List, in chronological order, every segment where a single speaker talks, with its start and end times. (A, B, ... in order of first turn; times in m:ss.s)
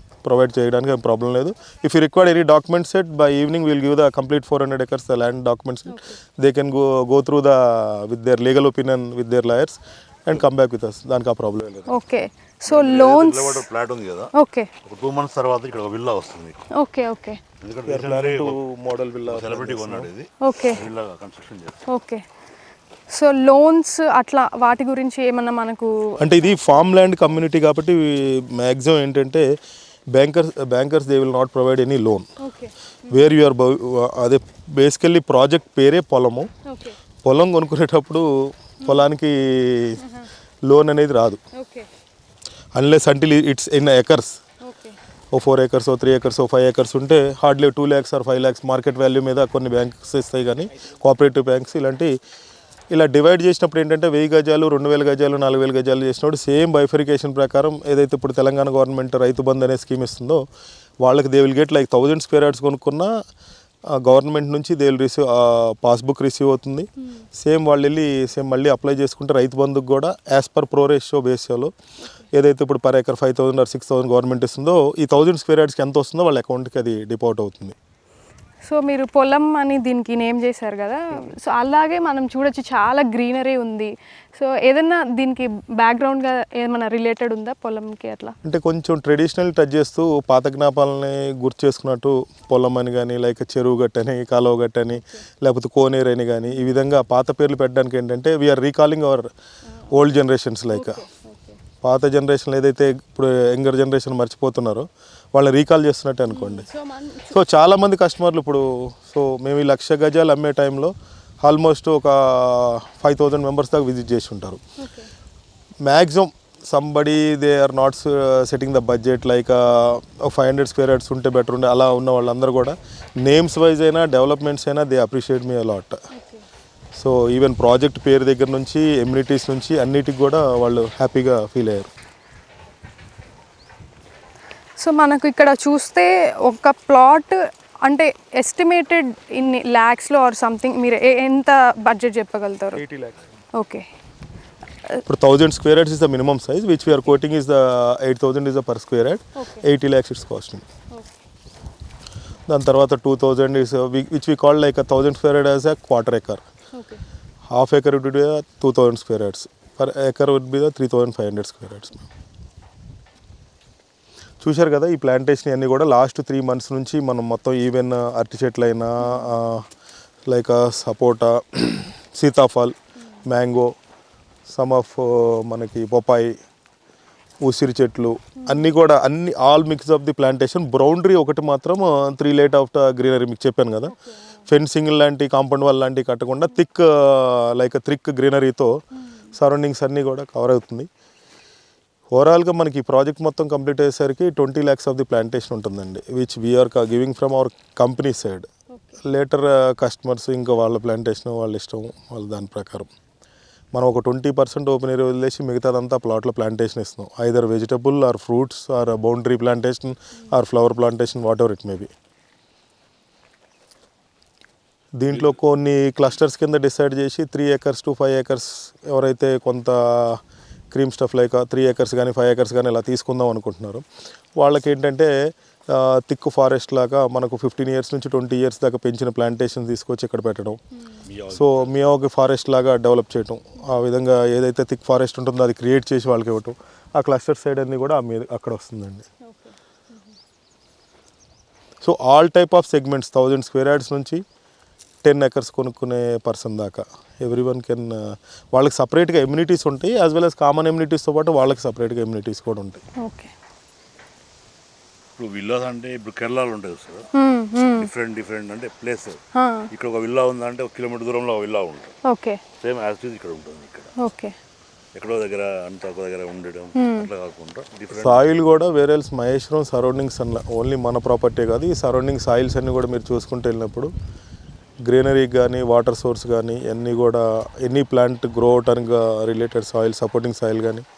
0:00.2-0:11.9 A
0:11.9-0:13.6 B
0:12.7-0:14.3 C
0:14.4-0:14.7 B
0:14.8-0:16.6 C
0:16.7-0:17.4 B
0:17.6-0:18.6 C
0:17.9-0:20.1 A
0:19.2-0:21.8 C
0:20.4-0:20.8 B
0:21.9-0:22.2 B
0:23.1-0:26.8 B
0:26.2-0:29.5 A
0:30.1-0:32.3 A
0:32.4-0:33.3 B
0:33.1-0:36.5 A
0:36.7-0:37.0 B
0:37.2-0:38.3 A
0:38.8-0:40.0 A
0:40.7-0:41.4 A
0:41.6-0:41.9 B
0:42.8-0:44.4 A
0:44.6-0:45.0 B
0:45.3-0:52.1 A
0:52.9-1:00.4 A
1:01.0-1:03.1 A
1:04.0-1:11.7 A
1:12.3-1:17.8 A
1:18.7-1:28.3 B
1:28.4-1:39.3 A
1:39.9-1:41.0 A
1:40.7-1:41.6 B
1:41.8-1:46.7 A
1:46.3-1:47.4 B
1:47.3-1:54.6 A
1:54.8-1:55.1 B
1:55.8-2:06.0 A
2:06.1-2:06.4 B
2:07.0-2:11.9 A
2:14.8-2:22.8 B
2:22.7-2:23.3 A
2:23.5-2:23.9 B
2:25.0-2:30.7 A
2:29.4-2:29.6 B
2:32.5-2:36.4 A
2:36.7-2:37.0 B
2:37.5-2:42.1 A
2:44.4-2:49.7 A
2:49.1-2:49.3 B
2:50.3-2:53.7 A
2:54.5-2:56.4 A
2:57.4-3:03.9 A
3:03.9-3:04.2 B
3:04.5-3:08.7 A
3:09.4-3:10.9 A
3:12.1-3:18.5 A
3:19.0-3:22.9 A
3:23.7-3:31.9 A
3:35.0-3:40.2 A
3:40.7-3:43.8 A
3:44.4-3:50.6 A
3:51.0-3:51.8 C
3:51.3-3:59.1 A
3:59.3-4:00.1 B
4:01.8-4:04.2 A
4:05.0-4:12.8 A
4:13.0-4:13.3 B
4:15.2-4:17.1 C
4:17.1-4:17.9 B
4:17.8-4:22.0 C
4:19.4-4:19.7 B
4:22.1-4:22.4 B
4:22.6-4:23.9 C
4:24.0-4:24.4 B
4:25.0-4:28.5 C
4:26.8-4:27.1 B
4:27.9-4:33.9 A
4:34.9-4:40.9 A